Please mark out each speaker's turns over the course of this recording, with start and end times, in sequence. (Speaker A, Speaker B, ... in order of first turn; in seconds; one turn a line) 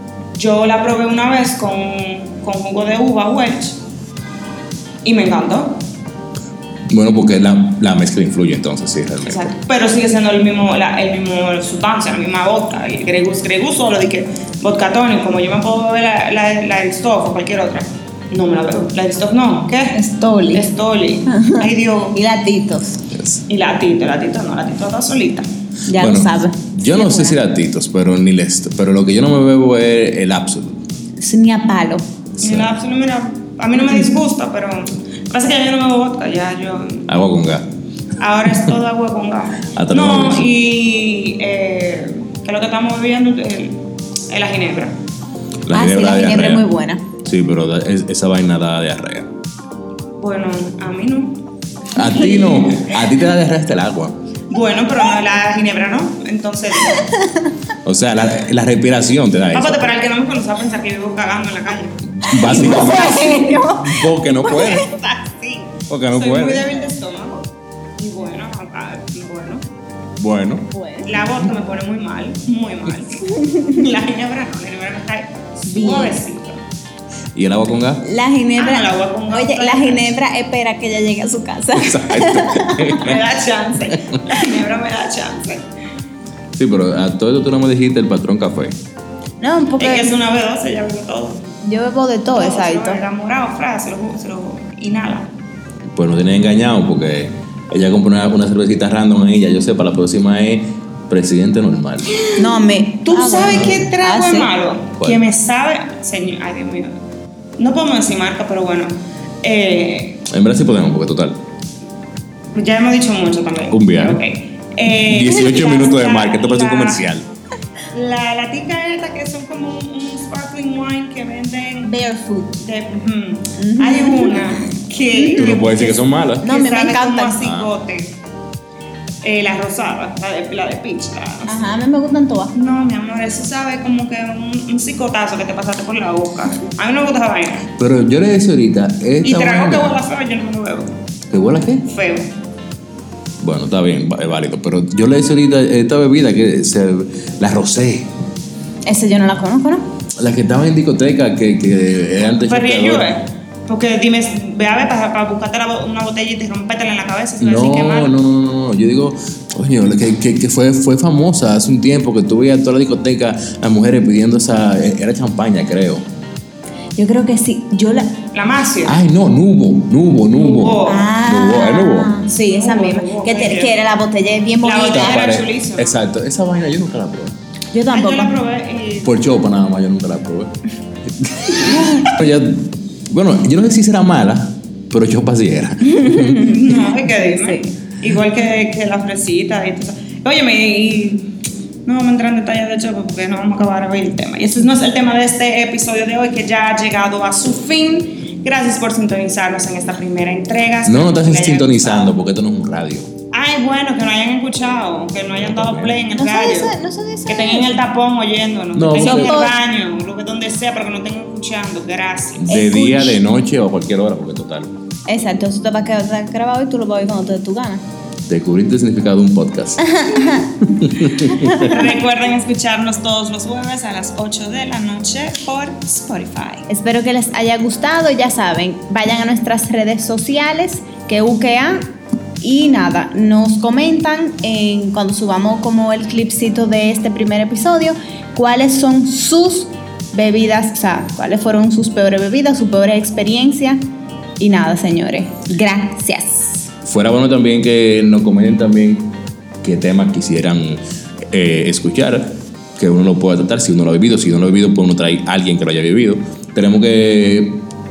Speaker A: 0.4-3.8
Speaker A: 5.0-5.8
Speaker B: 6.9-9.5
Speaker A: 9.2-20.0
Speaker C: 19.9-20.7
Speaker A: 20.5-22.2
Speaker C: 21.3-23.0
Speaker B: 23.1-23.4
Speaker A: 23.5-25.5
Speaker C: 25.9-27.4
Speaker B: 26.0-30.8
Speaker C: 31.2-32.0
Speaker B: 32.4-32.8
Speaker A: 32.4-37.1
Speaker B: 37.1-37.7
Speaker A: 38.2-45.0
Speaker B: 39.7-40.5
Speaker B: 45.7-46.6
Speaker C: 45.7-47.0
Speaker B: 47.2-49.3
Speaker A: 50.2-51.4
Speaker B: 52.0-54.2
Speaker A: 52.1-52.8
Speaker A: 54.5-57.1
Speaker C: 56.9-57.5
Speaker B: 57.9-59.9
Speaker A: 59.5-62.0
Speaker B: 62.1-64.9
Speaker C: 62.3-64.9
Speaker A: 62.7-63.1
Speaker A: 64.7-67.4
Speaker B: 65.9-66.7
Speaker A: 68.0-69.6
Speaker B: 70.2-71.5
Speaker C: 70.7-71.1
Speaker A: 71.1-76.6
Speaker C: 73.2-73.8
Speaker C: 75.7-76.2
Speaker B: 77.3-78.0
Speaker C: 78.0-83.1
Speaker A: 78.6-80.2
Speaker B: 81.7-83.2
Speaker A: 83.0-85.7
Speaker B: 86.5-88.8
Speaker C: 89.4-90.2
Speaker A: 89.8-91.4
Speaker C: 91.6-93.0
Speaker A: 92.3-95.3
Speaker B: 95.9-102.1
Speaker A: 102.1-102.5
Speaker C: 102.4-104.5
Speaker A: 103.1-106.9
Speaker B: 103.5-103.8
Speaker B: 105.0-105.2
Speaker A: 107.6-110.2
Speaker B: 110.3-111.4
Speaker A: 112.5-117.1
Speaker B: 113.7-114.2
Speaker B: 115.0-117.3
Speaker A: 117.9-121.9
Speaker C: 121.8-122.6
Speaker A: 122.6-128.1
Speaker C: 123.6-125.6
Speaker B: 125.3-126.6
Speaker C: 126.4-127.4
Speaker B: 127.4-127.7
Speaker A: 129.2-131.7
Speaker C: 131.5-132.5
Speaker A: 132.6-137.7
Speaker B: 137.8-140.0
Speaker A: 139.2-140.9
Speaker B: 141.3-141.8
Speaker A: 141.9-142.3
Speaker B: 143.4-148.1
Speaker C: 148.8-149.9
Speaker B: 150.2-153.1
Speaker A: 152.3-158.1
Speaker B: 157.4-166.1
Speaker C: 167.0-168.2
Speaker A: 168.3-169.0
Speaker B: 168.8-172.1
Speaker A: 170.3-171.1
Speaker C: 170.8-175.2
Speaker A: 172.3-173.7
Speaker A: 174.6-176.0
Speaker B: 174.9-177.4
Speaker C: 177.7-178.3
Speaker A: 177.9-179.2
Speaker B: 179.0-180.5
Speaker B: 181.2-186.5
Speaker C: 181.6-182.1
Speaker C: 185.8-187.8
Speaker A: 186.4-191.3
Speaker A: 191.9-202.1
Speaker B: 200.8-203.1
Speaker A: 203.3-206.8
Speaker B: 205.4-206.0
Speaker C: 206.1-207.8
Speaker A: 207.3-212.5
Speaker B: 208.8-209.4
Speaker C: 209.0-209.6
Speaker B: 212.4-214.7
Speaker C: 212.5-213.2
Speaker C: 215.1-217.8
Speaker B: 218.3-219.9
Speaker C: 219.8-221.9
Speaker B: 220.7-221.7
Speaker A: 221.5-226.7
Speaker C: 226.7-243.8
Speaker C: 244.4-246.7
Speaker B: 246.8-257.6